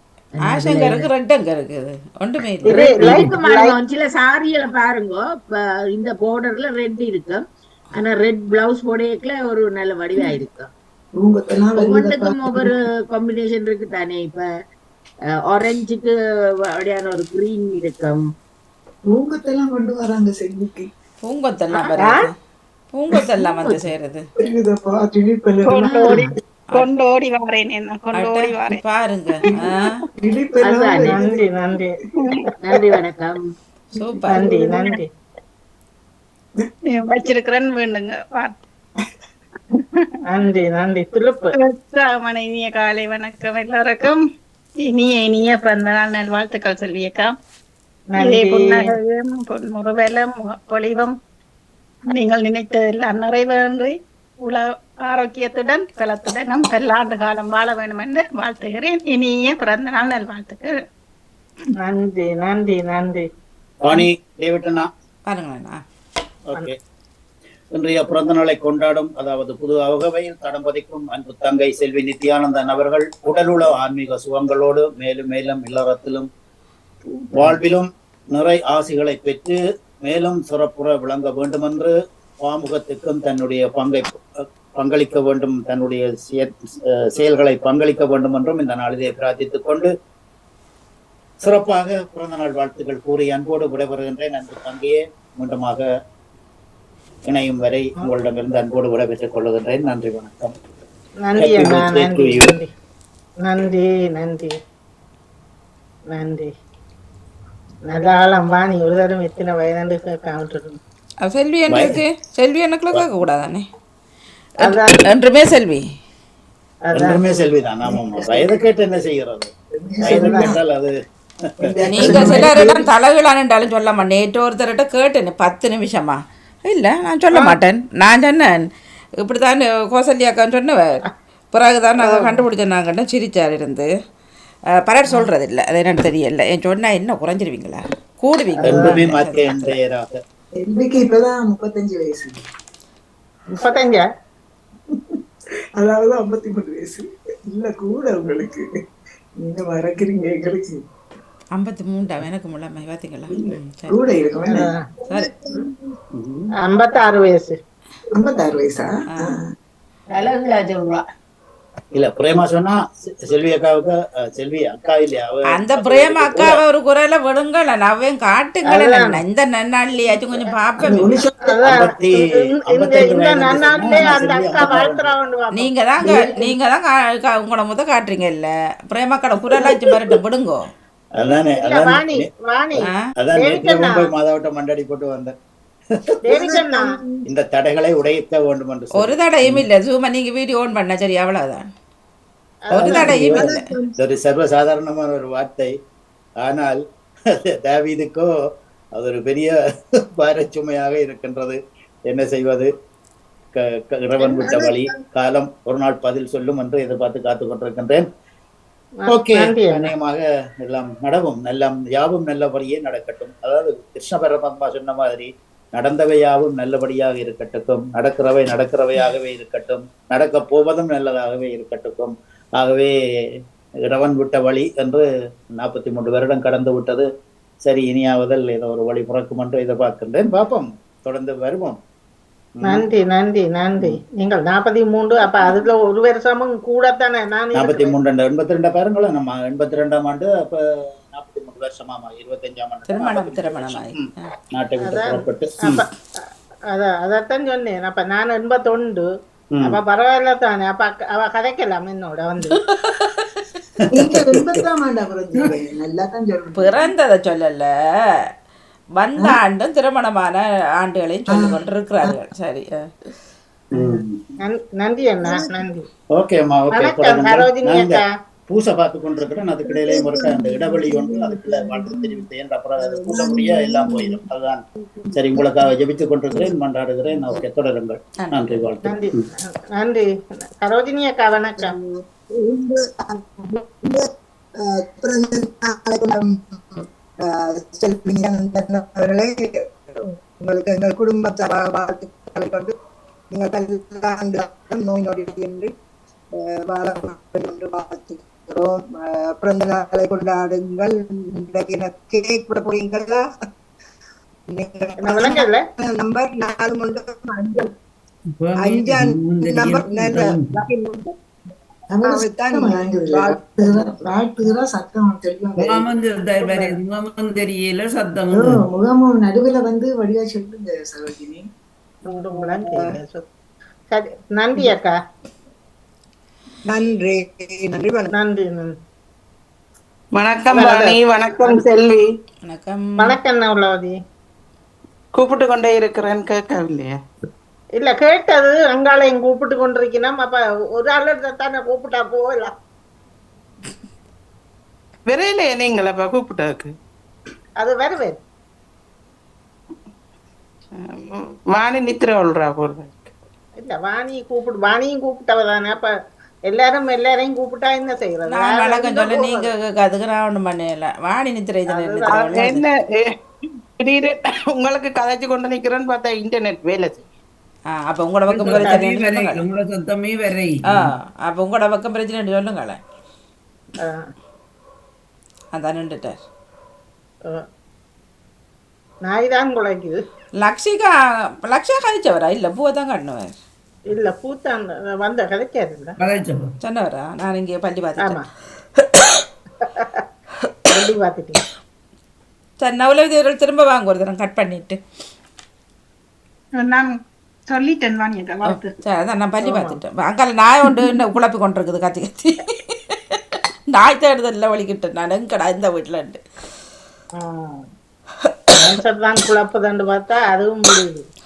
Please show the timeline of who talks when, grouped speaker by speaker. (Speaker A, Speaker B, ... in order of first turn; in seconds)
Speaker A: 0.4-1.1, 2.7-7.4, 7.9-10.7, 11.8-14.5, 15.5-16.1, 16.8-18.2, 23.6-23.9, 25.8-26.2, 30.6-31.2, 32.6-33.4, 160.1-161.0
Speaker B: 0.4-2.9, 21.2-22.3, 22.9-24.2, 28.2-30.0, 34.0-34.4, 65.3-65.8, 111.2-113.7, 114.7-115.8, 121.9-128.7, 129.2-131.0, 131.5-133.9, 134.8-139.8, 151.6-154.0, 165.6-171.1, 175.6-180.7, 189.0-191.7, 192.8-193.7, 242.9-244.3, 252.6-253.3, 256.6-257.7, 259.0-262.9, 278.2-278.6, 332.4-333.2, 358.3-362.6, 367.7-369.4, 370.7-372.8, 375.6-376.2, 380.4-380.9, 381.5-383.3, 386.6-388.2, 388.8-389.2, 392.6-394.8, 398.5-403.2, 403.7-406.2
Speaker C: 2.7-3.7, 21.8-22.3, 31.0-31.9, 34.3-35.1, 40.3-41.5, 48.1-48.9, 61.8-63.2, 101.2-102.7, 103.4-104.6, 106.1-106.5, 107.9-110.8, 114.6-115.1, 116.9-117.2, 120.1-120.5, 127.3-127.6, 132.0-132.4, 138.6-139.0, 143.6-144.0, 154.5-154.8, 156.6-157.6, 168.7-169.2, 171.5-175.7, 181.6-182.9, 183.4-184.1, 186.2-186.8, 192.7-193.5, 209.1-209.9, 232.7-237.9, 244.8-245.8, 246.7-249.1, 249.6-252.6, 264.4-265.9, 266.7-268.0, 278.9-279.2, 279.8-280.1, 280.6-281.8, 305.0-305.6, 316.4-316.7, 322.1-323.3, 323.9-324.9, 328.1-328.7, 330.5-331.6, 333.0-333.9, 337.8-342.5, 347.6-348.2, 353.6-355.9, 356.5-359.5, 361.7-362.3, 368.4-368.8, 373.8-374.1, 379.1-380.0, 383.9-385.9, 389.7-390.0, 390.7-391.4, 399.4-399.8, 407.2-407.6, 408.5-411.0
Speaker D: 11.2-12.7, 19.1-20.9, 24.4-26.2, 30.2-31.4, 34.0-34.9, 117.9-118.5, 119.8-120.6, 121.6-122.9, 140.6-142.4, 144.9-145.2, 145.8-148.6, 149.4-150.8, 153.3-155.7, 158.2-159.5, 170.8-171.7, 176.0-176.6, 186.3-187.2, 253.9-256.9, 261.3-262.1, 269.6-272.2, 272.9-274.2, 311.9-315.9, 318.3-321.4
Speaker E: 25.7-28.8, 36.9-38.5, 41.6-44.2, 44.8-47.3, 48.2-51.1, 52.1-60.8, 396.6-396.9, 397.5-398.8
Speaker F: 63.8-64.9, 66.5-66.7, 67.8-76.3, 77.3-84.2, 84.8-89.9, 91.4-95.9, 97.3-100.5, 101.4-102.5, 111.7-112.0, 116.9-119.5, 120.0-121.0, 121.5-122.5, 138.6-140.2, 156.2-156.5, 161.9-166.6, 171.6-175.1, 181.2-182.3, 183.2-185.3, 187.3-189.7, 192.8-195.7, 196.4-196.8, 197.3-198.3, 199.0-199.5, 200.2-201.6, 202.1-202.7, 203.6-208.1, 209.1-222.9, 223.9-225.0, 225.6-227.1, 227.7-231.8, 232.6-232.8, 237.6-245.8, 253.8-254.7, 263.7-264.2, 266.1-274.6, 275.1-279.2
Speaker G: 282.3-284.1, 284.6-292.7, 293.3-295.7, 296.4-303.2, 304.5-307.7, 308.6-311.1, 312.0-313.9, 326.7-328.1
Speaker H: 308.4-310.6, 315.6-318.6, 368.4-370.9, 386.0-386.5
Speaker I: 330.2-332.1, 335.2-337.0, 345.1-346.7, 350.8-353.1, 362.1-363.1, 363.8-367.0